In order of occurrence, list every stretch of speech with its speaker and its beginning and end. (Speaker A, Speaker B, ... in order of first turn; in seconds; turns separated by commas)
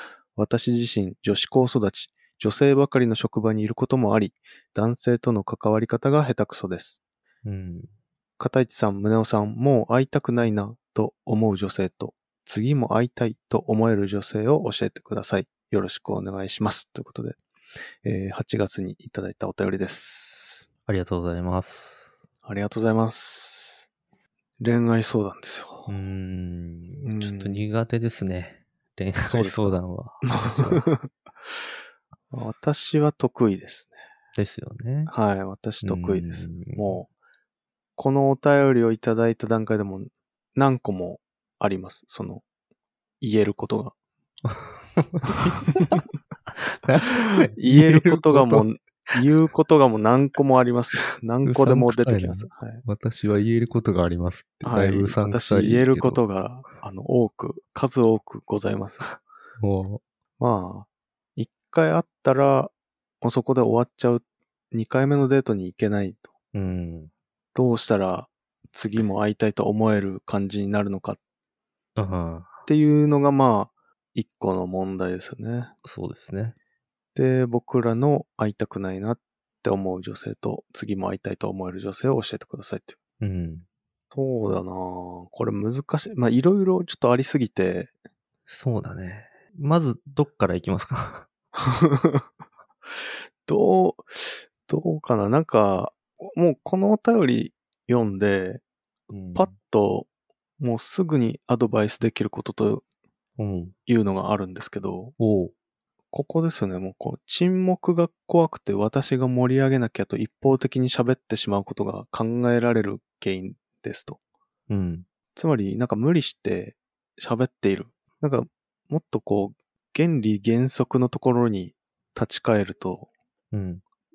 Speaker A: 0.4-7.0, Speaker B: 7.5-7.9, Speaker A: 8.4-17.4, Speaker A: 18.0-20.7, Speaker B: 20.9-22.1, Speaker A: 22.4-23.9, Speaker A: 24.6-25.9, Speaker B: 25.9-30.9, Speaker A: 27.0-27.7, Speaker A: 29.3-29.8, Speaker A: 30.3-31.1, Speaker A: 32.3-33.9, Speaker B: 34.4-35.1, Speaker A: 35.1-37.1, Speaker B: 35.8-37.0, Speaker A: 38.0-42.4, Speaker A: 43.2-43.9, Speaker B: 44.5-49.2, Speaker A: 47.6-52.8, Speaker B: 51.4-56.2, Speaker A: 54.6-59.1, Speaker B: 59.6-60.0, Speaker A: 60.4-66.3, Speaker B: 66.5-67.1, Speaker A: 67.5-71.2, Speaker B: 72.0-72.6, Speaker A: 72.7-75.7, Speaker B: 75.8-76.6, Speaker A: 77.2-83.0, Speaker B: 83.2-83.7, Speaker A: 84.1-87.9, Speaker B: 88.5-91.3, Speaker A: 91.6-92.3, Speaker A: 93.5-98.6, Speaker B: 99.1-99.5, Speaker A: 99.3-100.1, Speaker A: 100.6-102.8, Speaker B: 103.4-103.7, Speaker A: 103.9-105.2, Speaker B: 105.2-105.5, Speaker A: 106.1-114.2, Speaker B: 114.7-115.1, Speaker A: 115.4-123.1, Speaker B: 123.5-123.8